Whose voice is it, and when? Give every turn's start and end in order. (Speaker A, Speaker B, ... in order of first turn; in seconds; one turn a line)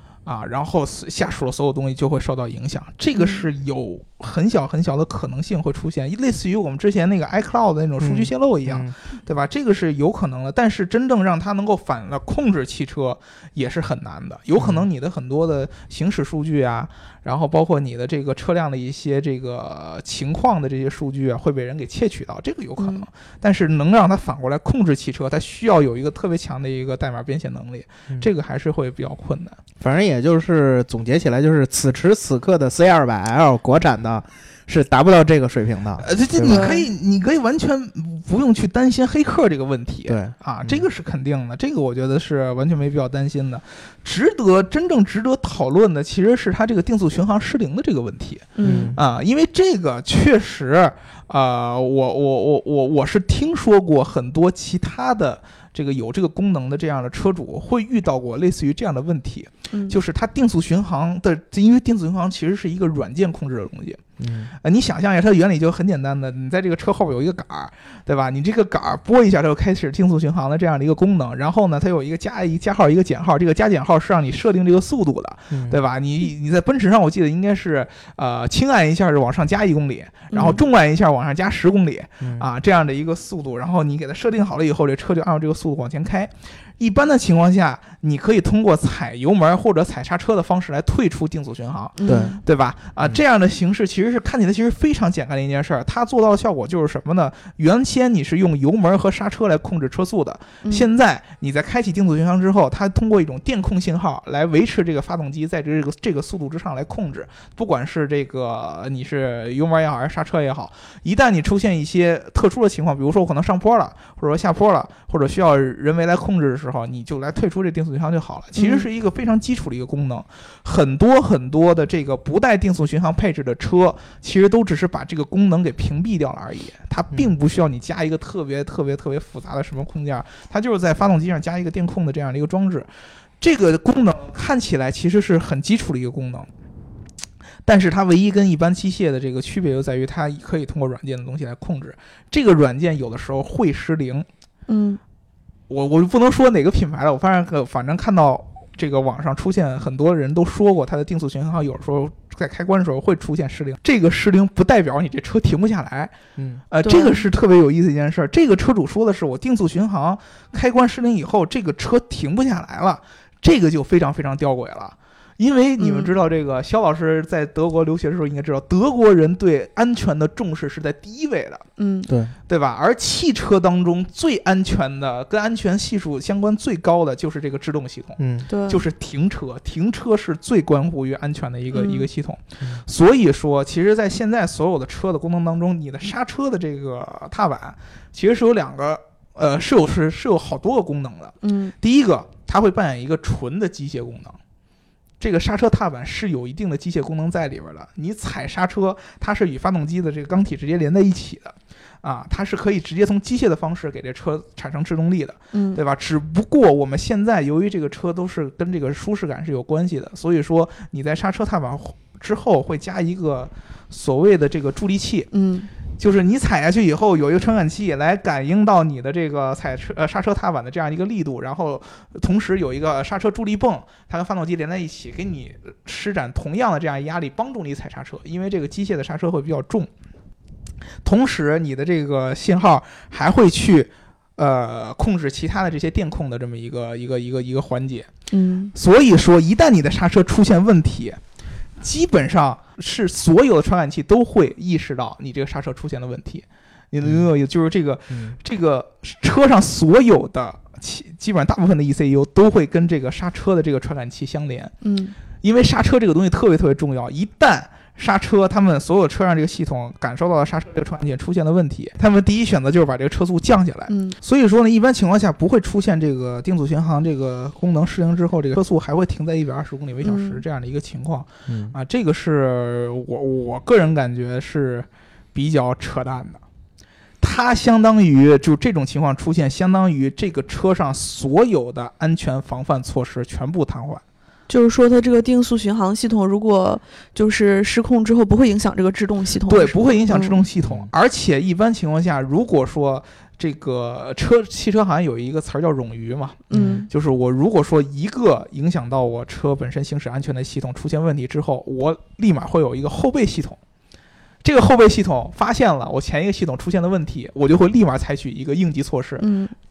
Speaker A: 0.3-29.6
Speaker B: 3.1-3.5
Speaker C: 8.0-8.9
Speaker C: 14.6-14.9
Speaker B: 22.8-23.1
Speaker C: 29.8-36.7
Speaker A: 36.0-64.0
Speaker B: 36.5-36.9
Speaker C: 40.1-40.8
Speaker B: 48.6-49.0
Speaker C: 48.6-49.0
Speaker B: 59.7-60.0
Speaker C: 64.2-64.5
Speaker A: 64.6-132.9
Speaker C: 75.5-75.8
Speaker B: 80.3-80.6
Speaker C: 82.2-82.5
Speaker B: 92.0-92.4
Speaker C: 92.1-92.4
Speaker B: 118.6-118.9
Speaker A: 133.4-136.5
Speaker A: 137.7-144.3
Speaker B: 144.7-145.0
Speaker A: 145.7-156.1
Speaker C: 156.4-156.6
Speaker A: 156.7-171.7
Speaker B: 156.8-157.2
Speaker B: 165.8-166.1
Speaker B: 171.8-172.1
Speaker C: 172.1-172.3
Speaker A: 172.5-194.4
Speaker C: 178.2-178.5
Speaker B: 178.5-178.8
Speaker B: 181.7-182.1
Speaker B: 191.4-191.7
Speaker A: 195.2-215.3
Speaker B: 205.5-205.8
Speaker B: 215.3-215.7
Speaker A: 216.0-229.9
Speaker A: 231.0-238.1
Speaker B: 238.3-238.7
Speaker A: 238.8-241.2
Speaker A: 241.8-254.7
Speaker C: 248.1-248.4
Speaker B: 254.8-255.2
Speaker A: 255.4-276.4
Speaker B: 263.9-264.2
Speaker B: 270.0-270.4
Speaker C: 271.5-271.8
Speaker A: 277.2-284.0
Speaker B: 284.5-290.4
Speaker A: 289.5-303.6
Speaker C: 290.6-290.9
Speaker B: 296.5-296.9
Speaker C: 296.5-296.9
Speaker A: 304.4-309.3
Speaker B: 309.2-309.5